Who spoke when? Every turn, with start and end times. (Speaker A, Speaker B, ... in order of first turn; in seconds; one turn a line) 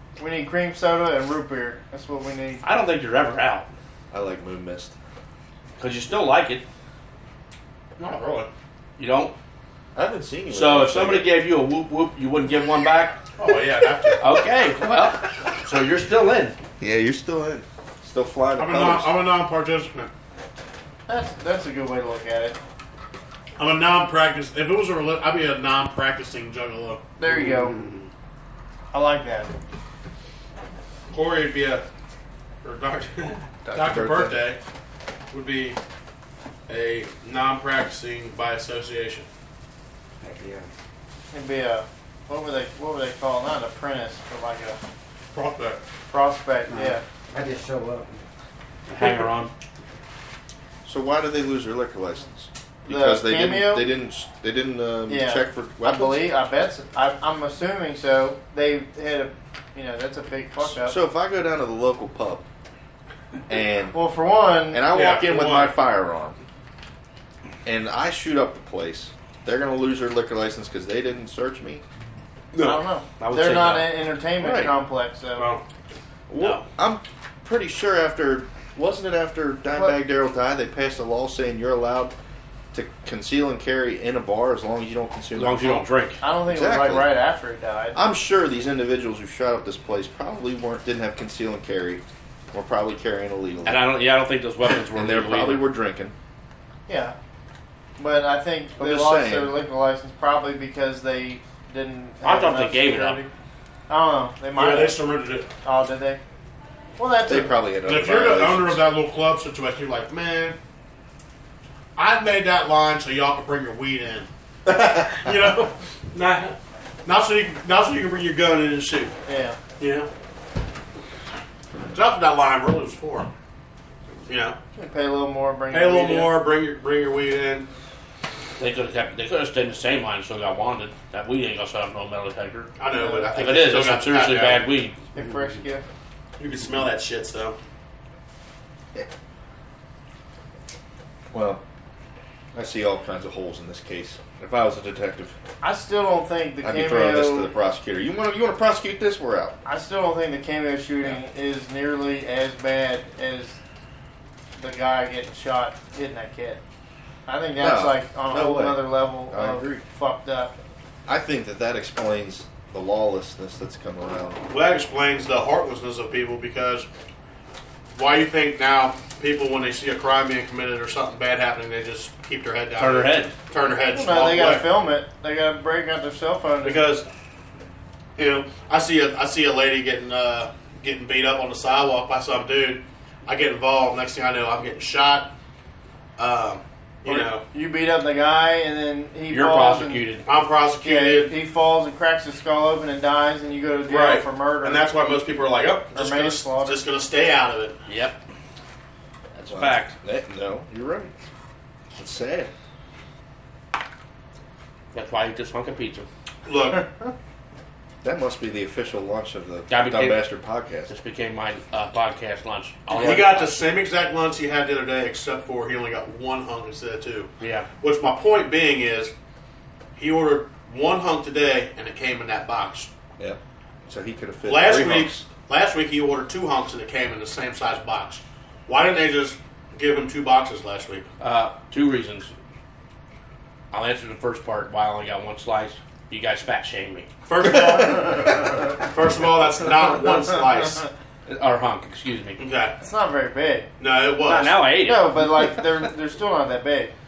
Speaker A: 0.2-2.6
Speaker B: 2.6-3.7
Speaker C: 4.1-5.0
Speaker B: 5.8-6.6
Speaker D: 8.0-8.5
Speaker B: 9.0-9.3
Speaker C: 9.9-11.3
Speaker B: 10.5-13.2
Speaker D: 13.4-14.2
Speaker B: 14.2-16.6
Speaker C: 16.8-19.2
Speaker D: 18.6-20.1
Speaker A: 21.1-22.6
Speaker D: 23.6-27.0
Speaker A: 27.2-27.8
Speaker E: 27.3-28.1
Speaker A: 28.9-29.5
Speaker D: 31.1-31.9
Speaker D: 32.6-34.6
Speaker C: 33.6-34.4
Speaker D: 35.3-35.8
Speaker D: 36.7-39.3
Speaker E: 40.2-40.7
Speaker A: 41.3-44.8
Speaker D: 45.3-45.8
Speaker A: 46.1-47.0
Speaker E: 46.7-48.2
Speaker B: 48.9-49.5
Speaker C: 50.9-56.3
Speaker A: 52.9-53.9
Speaker A: 55.1-61.0
Speaker C: 60.6-62.5
Speaker C: 63.5-64.0
Speaker A: 63.9-64.9
Speaker C: 64.7-66.4
Speaker D: 64.9-65.8
Speaker C: 67.7-71.8
Speaker D: 72.5-72.8
Speaker A: 72.6-75.5
Speaker B: 73.2-74.0
Speaker C: 74.4-74.7
Speaker D: 75.4-75.6
Speaker C: 76.3-82.2
Speaker B: 76.4-76.6
Speaker C: 82.7-85.9
Speaker B: 85.3-86.2
Speaker A: 86.2-88.0
Speaker C: 86.4-87.1
Speaker C: 88.0-93.9
Speaker B: 93.7-95.7
Speaker C: 94.9-96.2
Speaker A: 96.9-97.2
Speaker A: 98.0-103.3
Speaker C: 98.8-99.6
Speaker B: 102.2-103.2
Speaker A: 103.9-105.0
Speaker D: 104.5-105.5
Speaker A: 105.6-106.2
Speaker A: 107.0-107.5
Speaker C: 107.2-108.8
Speaker D: 107.8-110.6
Speaker D: 112.0-119.2
Speaker A: 119.3-119.6
Speaker D: 119.8-120.1
Speaker D: 121.9-123.3
Speaker D: 124.3-124.6
Speaker A: 124.8-126.4
Speaker D: 125.7-127.7
Speaker B: 128.6-132.7
Speaker D: 132.8-134.7
Speaker A: 132.9-133.5
Speaker B: 133.4-135.0
Speaker A: 135.2-135.8
Speaker D: 136.4-137.6
Speaker C: 141.3-141.6
Speaker C: 142.5-145.4
Speaker A: 145.6-147.5
Speaker C: 146.6-149.6
Speaker A: 149.7-153.6
Speaker A: 154.6-156.6
Speaker A: 157.3-160.5
Speaker C: 157.6-159.8
Speaker C: 161.1-164.4
Speaker D: 164.5-166.9
Speaker D: 167.9-174.7
Speaker B: 172.8-173.3
Speaker A: 173.9-176.8
Speaker D: 176.6-177.1
Speaker D: 178.2-185.3
Speaker D: 186.2-187.4
Speaker A: 187.1-190.1
Speaker B: 189.3-190.3
Speaker D: 190.3-191.3
Speaker A: 190.8-194.9
Speaker D: 193.9-197.8
Speaker A: 195.9-196.8
Speaker B: 197.9-198.2
Speaker B: 199.3-199.9
Speaker C: 199.5-201.1
Speaker C: 201.9-202.5
Speaker B: 204.9-206.1
Speaker D: 206.5-206.8
Speaker C: 208.0-210.9
Speaker B: 209.7-210.2
Speaker B: 210.9-213.6
Speaker D: 212.9-219.1
Speaker B: 217.4-217.7
Speaker D: 220.0-222.9
Speaker C: 223.2-225.3
Speaker D: 224.4-231.1
Speaker B: 231.2-232.3
Speaker B: 233.7-237.1
Speaker D: 237.2-240.9
Speaker B: 241.3-242.4
Speaker D: 242.4-242.8
Speaker A: 242.8-243.7
Speaker D: 243.8-244.7
Speaker B: 244.2-245.2
Speaker A: 244.8-246.9